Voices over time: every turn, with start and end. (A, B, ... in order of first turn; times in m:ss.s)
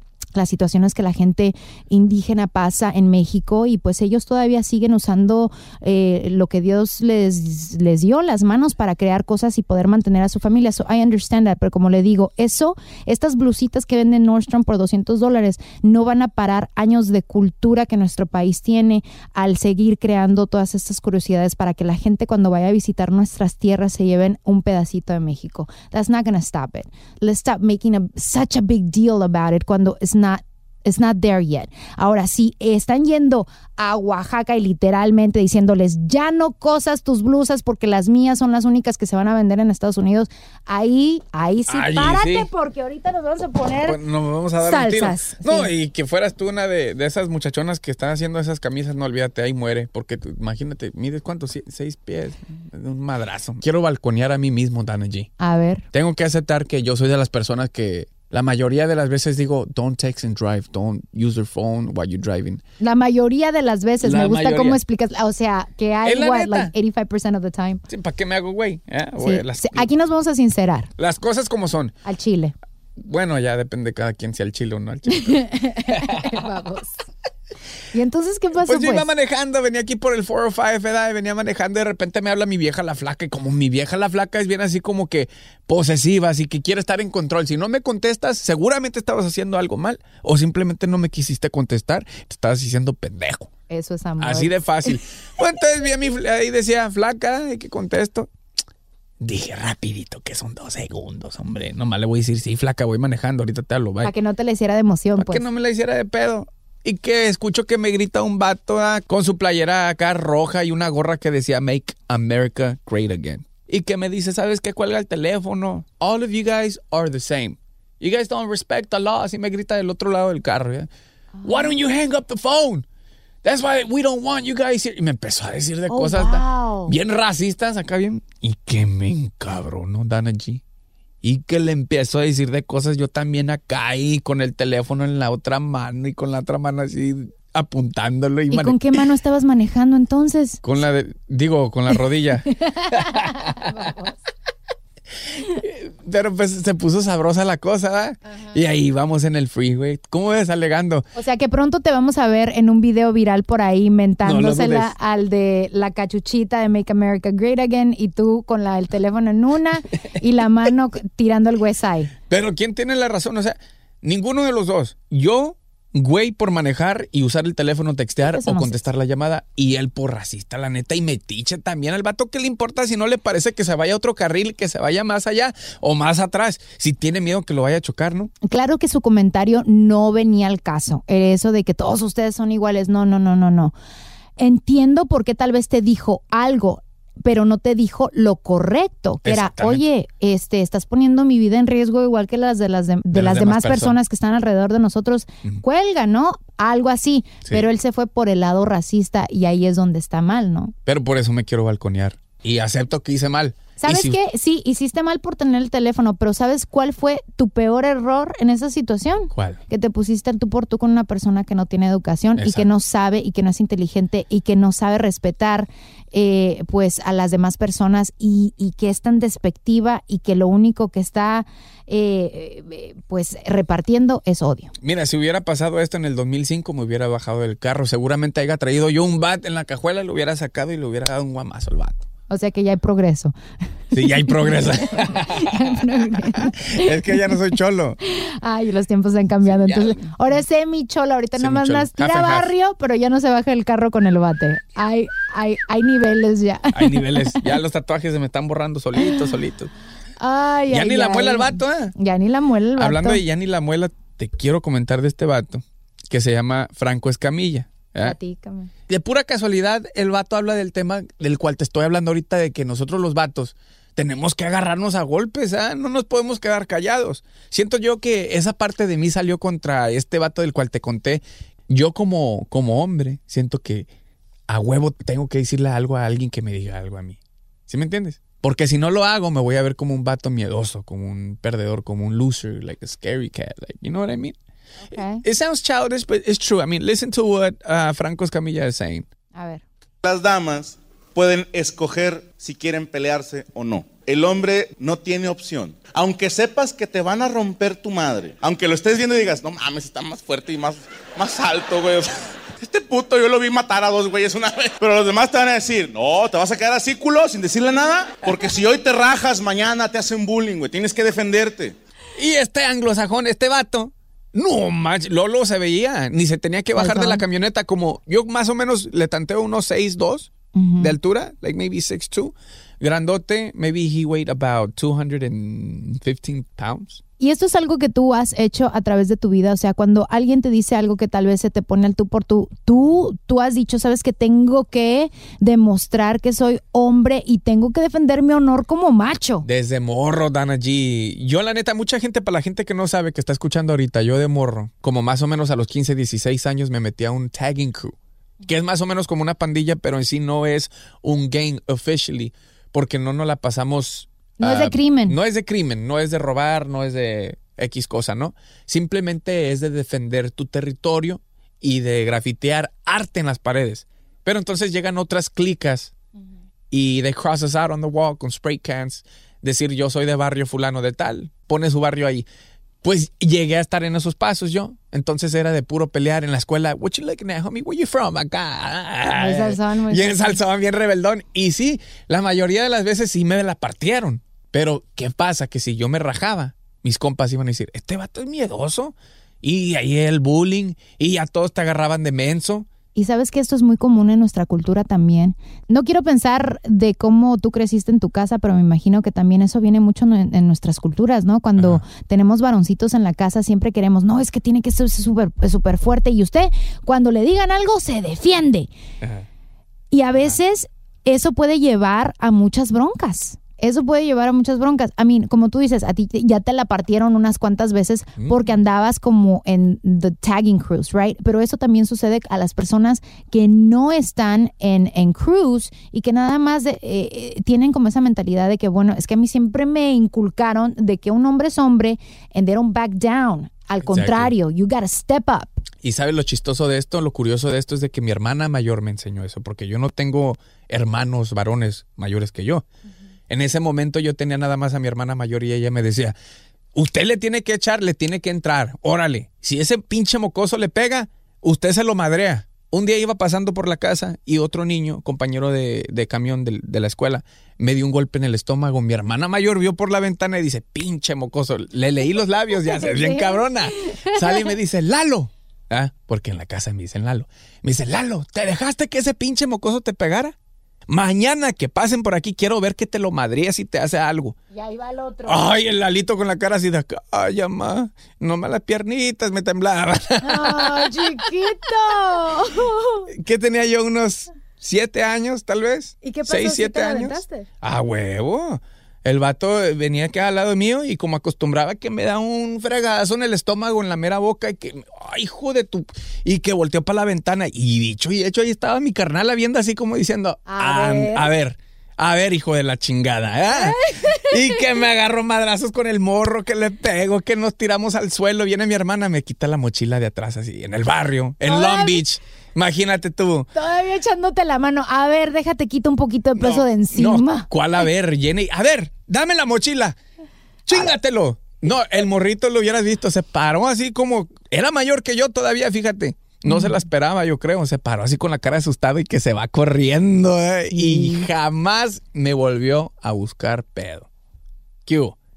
0:00.4-0:44.0 A
0:41.7-0:42.5 B
0:43.8-0:55.3 B
0:44.6-0:45.7 A
0:55.4-0:55.8 A
0:55.9-1:02.6 B
1:02.8-1:07.8 A
1:04.0-1:04.8 B
1:06.0-1:06.7 B
1:07.9-1:09.9 B
1:09.2-1:10.9 A
1:11.0-1:11.9 B
1:12.0-1:12.5 A
1:13.0-1:16.3 B
1:15.1-1:17.0 A
1:17.9-1:19.1 A
1:18.6-1:33.5 B
1:33.7-1:34.6 A
1:34.2-1:38.3 B
1:39.2-1:44.1 B
1:44.0-1:45.4 A
1:45.2-2:00.9 B
2:01.4-2:01.8 A
2:01.4-2:02.8 B
2:03.4-2:10.6 B
2:05.9-2:07.0 A
2:11.2-2:19.0 B
2:18.5-2:20.6 A
2:20.6-2:23.7 B
2:22.7-2:24.2 A
2:25.3-2:31.0 B
2:31.2-2:42.1 A
2:34.2-2:34.9 B
2:42.3-2:58.3 B
2:48.2-2:48.7 A
2:58.4-3:03.7 A
3:04.4-3:20.7 A
3:09.2-3:09.8 B
3:13.1-3:14.0 B
3:20.9-3:24.2 B
3:23.8-3:44.7 A
3:29.3-3:29.6 B
3:32.4-3:32.7 B
3:44.8-3:52.0 B
3:52.3-3:53.3 A
3:53.9-3:58.0 B
3:54.0-3:57.4 A
3:58.0-4:07.5 A
3:59.4-4:00.2 B
4:01.4-4:02.5 B
4:06.7-4:09.7 B
4:10.2-4:13.2 A
4:10.7-4:12.0 B
4:12.8-4:18.2 B
4:18.0-4:18.7 A
4:18.9-4:33.9 B
4:34.5-4:44.4 B
4:44.9-4:45.2 A
4:45.2-4:49.1 B
4:49.3-4:49.6 A
4:50.0-5:11.8 C
5:12.2-5:27.0 B
5:16.8-5:17.2 A
5:20.6-5:20.9 A
5:27.2-5:39.5 A
5:39.4-6:05.9 B
5:54.4-5:55.2 A
6:06.7-6:12.3 B
6:12.8-6:32.7 B
6:19.2-6:20.4 A
6:33.0-6:48.7 A
6:41.6-6:41.8 B
6:49.0-6:49.3 B
6:49.9-7:15.6 A
6:58.2-6:58.4 B
7:13.8-7:14.3 B
7:15.8-7:22.6 B
7:23.3-7:26.2 B
7:26.8-7:50.4 B
7:42.6-7:44.5 A
7:50.9-7:54.4 B
7:54.5-7:55.5 A
7:55.3-8:01.2 B
8:00.2-8:03.1 A
8:03.1-8:33.5 B
8:06.0-8:07.5 A
8:20.5-8:21.3 A
8:23.5-8:24.6 A
8:31.4-8:32.0 A
8:33.5-8:37.5 A
8:36.4-8:40.0 B
8:40.7-8:54.1 B
8:46.5-8:46.8 A
8:50.7-8:51.3 A
8:54.9-8:55.2 B